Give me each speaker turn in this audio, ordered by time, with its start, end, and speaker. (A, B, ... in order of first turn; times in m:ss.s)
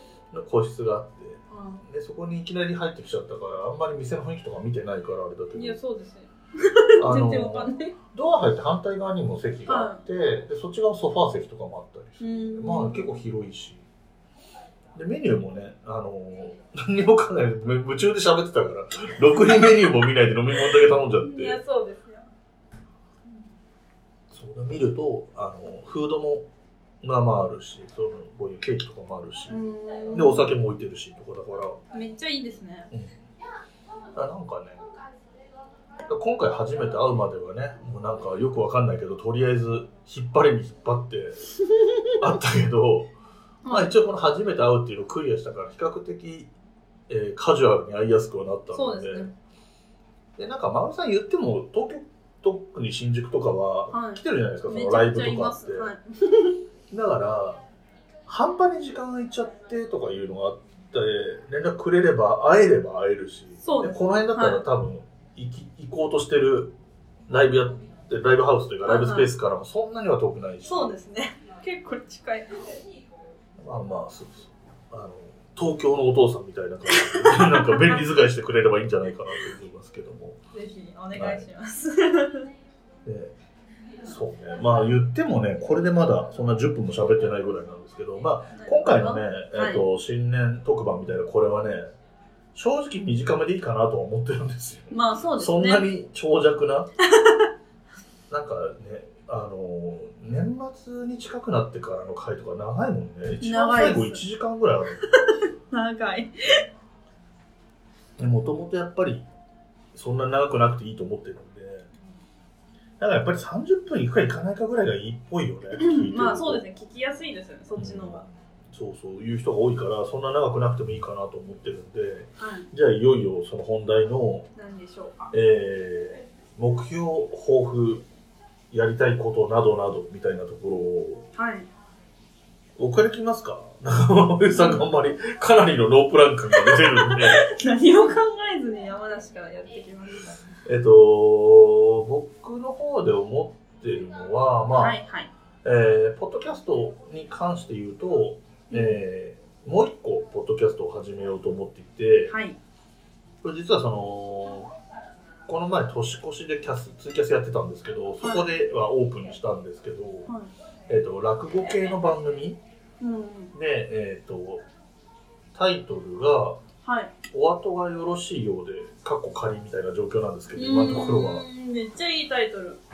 0:00.3-0:05.8 A
0:01.5-0:01.8 B
0:05.5-0:08.0 B
0:07.0-0:13.8 A
0:09.7-0:10.0 B
0:12.2-0:13.2 B
0:14.9-0:21.6 A
0:21.2-0:22.3 B
0:24.3-0:26.4 A
0:27.0-0:29.6 A
0:29.5-0:30.5 B
0:30.1-0:31.8 A
0:31.9-0:32.9 B
0:34.1-0:34.8 A
0:36.1-0:41.5 A
0:41.8-0:42.1 B
0:42.2-0:43.1 A
0:43.6-0:43.9 B
0:43.7-0:46.5 A
0:47.1-0:49.3 A
0:48.7-0:49.3 B
0:50.4-0:55.9 A
0:53.9-0:56.6 B
0:56.9-0:57.6 A
0:58.3-1:06.7 A
1:03.6-1:04.6 B
1:07.3-1:11.0 A
1:08.8-1:09.3 B
1:10.6-1:12.8 B
1:13.6-1:20.4 A
1:16.9-1:18.0 B
1:20.5-1:22.5 B
1:21.1-1:21.4 A
1:23.0-1:23.3 A
1:24.0-1:31.9 A
1:28.6-1:29.8 B
1:32.5-1:36.9 A
1:34.9-1:35.9 B
1:37.0-1:37.5 B
1:38.3-1:45.1 A
1:43.4-1:44.2 B
1:45.1-1:46.6 B
1:48.2-1:49.2 A
1:49.9-1:51.9 A
1:53.0-1:56.6 A
1:55.7-1:58.2 B
1:57.8-2:04.5 A
2:02.4-2:02.7 B
2:04.5-2:05.3 B
2:05.3-2:08.0 A
2:08.7-2:11.2 A
2:11.3-2:11.7 B
2:12.8-2:17.4 A
2:14.5-2:14.9 B
2:16.6-2:20.4 B
2:20.6-2:25.0 A
2:24.7-2:25.3 B
2:25.6-2:32.3 A
2:28.7-2:29.0 B
2:32.3-2:32.6 B
2:33.4-2:34.7 A
2:35.5-2:40.3 A
2:38.2-2:38.5 B
2:40.9-2:42.6 A
2:43.0-2:43.5 B
2:43.5-2:44.6 A
2:45.5-2:46.6 A
2:46.8-2:47.1 B
2:47.3-2:51.4 A
2:50.5-2:52.8 B